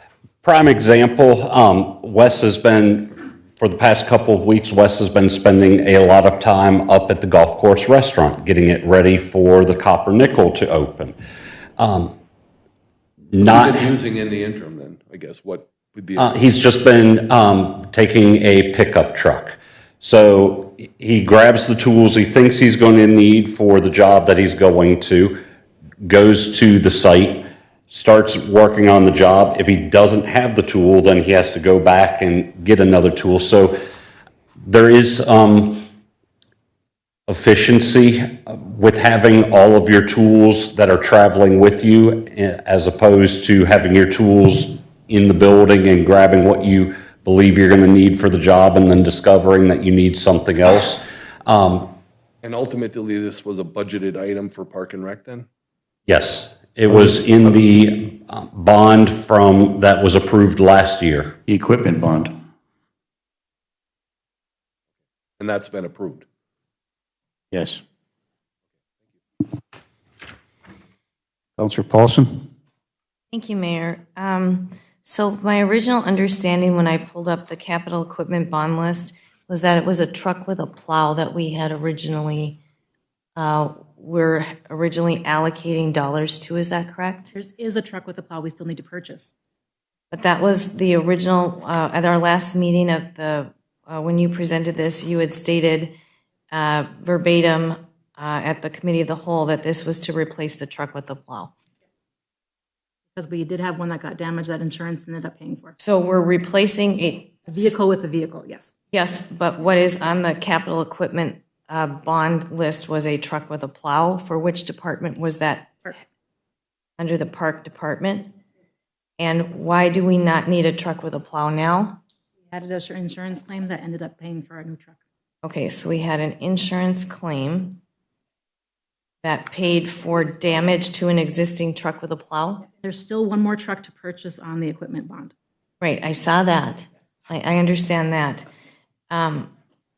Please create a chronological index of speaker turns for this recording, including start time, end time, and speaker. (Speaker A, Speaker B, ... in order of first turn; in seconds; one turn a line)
Speaker A: 0.4-11.1
Speaker A: 11.8-12.1
Speaker A: 13.3-13.9
Speaker B: 13.4-16.3
Speaker A: 16.2-25.4
Speaker A: 26.0-33.8
Speaker A: 34.6-35.9
Speaker A: 37.3-52.0
Speaker B: 52.4-55.5
Speaker A: 56.1-61.4
Speaker C: 61.5-62.3
Speaker B: 65.4-66.2
Speaker C: 67.5-67.8
Speaker C: 71.6-72.5
Speaker D: 73.3-82.6
Speaker D: 83.3-87.3
Speaker E: 87.3-89.3
Speaker D: 90.1-95.9
Speaker D: 96.5-101.5
Speaker E: 103.1-105.8
Speaker D: 105.8-107.7
Speaker E: 107.5-108.7
Speaker D: 108.9-115.9
Speaker D: 117.0-118.3
Speaker D: 119.2-122.0
Speaker E: 122.5-125.0
Speaker D: 125.4-127.8
Speaker D: 129.2-132.7
Speaker E: 132.8-135.3
Speaker D: 135.8-138.4
Speaker D: 139.1-139.5